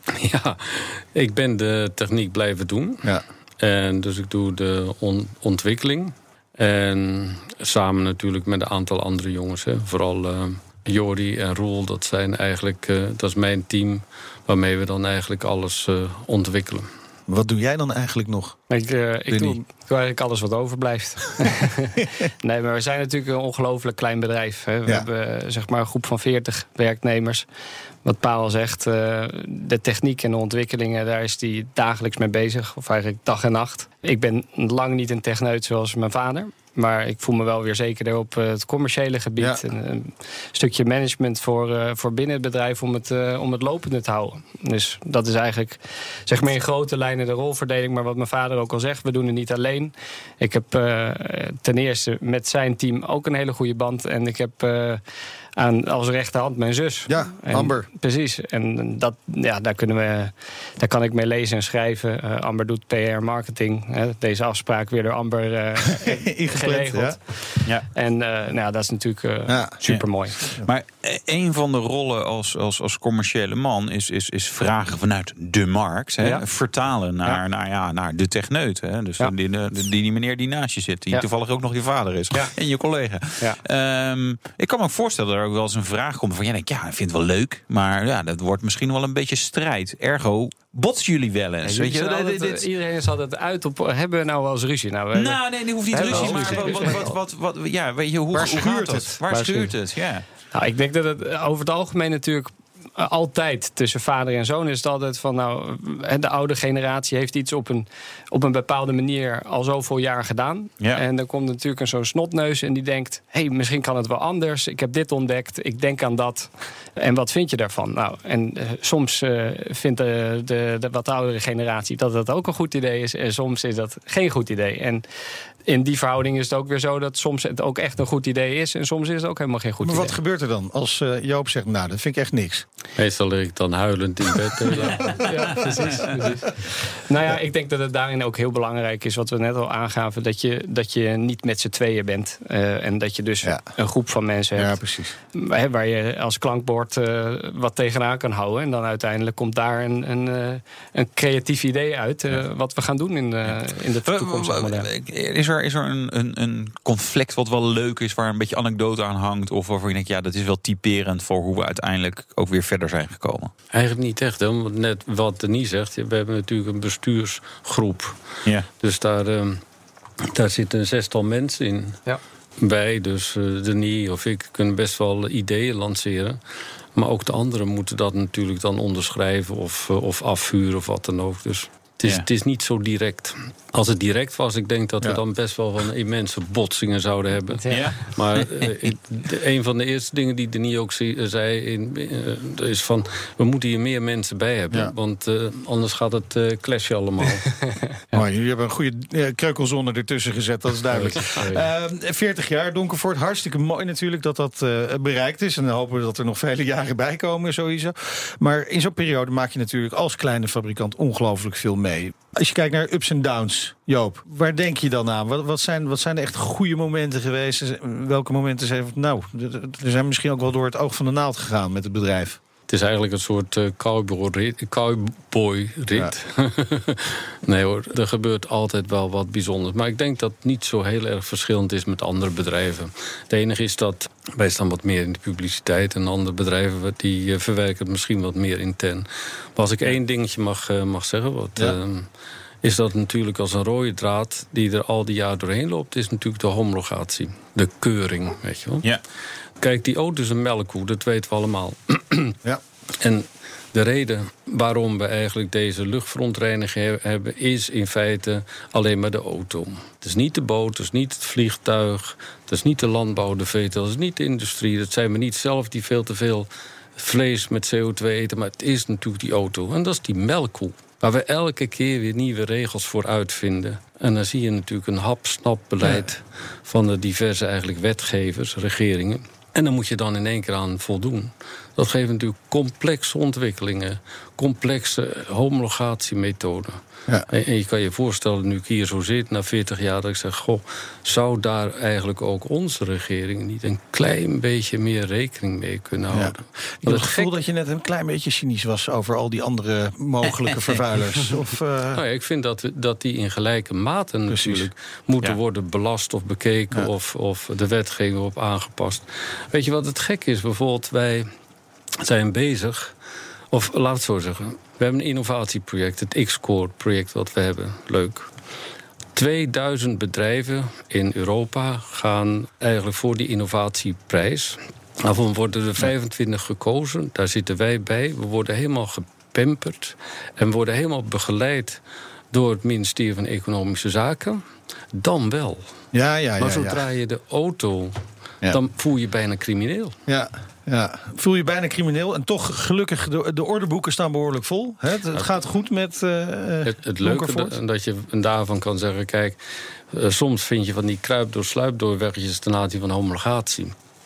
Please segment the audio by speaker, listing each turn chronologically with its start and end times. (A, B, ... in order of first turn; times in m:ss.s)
0:00.2-0:16.9 A
0:17.3-0:18.6 B
0:18.7-0:27.5 C
0:19.3-0:19.6 B
0:22.0-0:22.3 B
0:28.0-0:55.0 C
0:55.6-1:10.4 C
0:57.1-0:57.9 B
1:06.0-1:07.2 B
1:09.5-1:09.8 B
1:09.8-1:32.7 D
1:16.2-1:16.5 C
1:31.6-1:37.1 C
1:35.1-1:40.2 D
1:35.9-1:37.2 B
1:38.3-1:39.3 B
1:38.8-1:39.7 C
1:40.5-2:05.0 C
2:05.7-2:10.2 C
2:09.8-2:12.7 B
2:13.0-2:15.2 A
2:15.2-2:24.8 C
2:24.6-2:25.2 B
2:25.3-2:34.9 C
2:34.0-2:43.5 D
2:43.7-2:49.6 A
2:50.3-2:52.0 A
2:52.6-2:56.4 A
2:57.0-3:17.8 A
3:07.6-3:07.9 C
3:07.7-3:08.7 D
3:18.1-3:42.4 B
3:20.9-3:21.6 A
3:42.7-4:02.1 A
4:02.6-4:08.9 A
4:09.6-4:12.4 A
4:13.0-4:57.3 A
4:56.1-5:02.0 B
5:01.9-5:11.3 A
5:04.3-5:04.7 B
5:12.0-5:13.0 A
5:13.5-5:18.3 A
5:19.2-5:31.8 A
5:32.3-5:34.4 A
5:34.9-5:35.7 A
5:35.9-5:36.8 B
5:36.4-5:38.0 A
5:38.5-5:40.0 A
5:40.1-5:47.6 B
5:46.6-5:49.4 A
5:49.9-5:53.8 A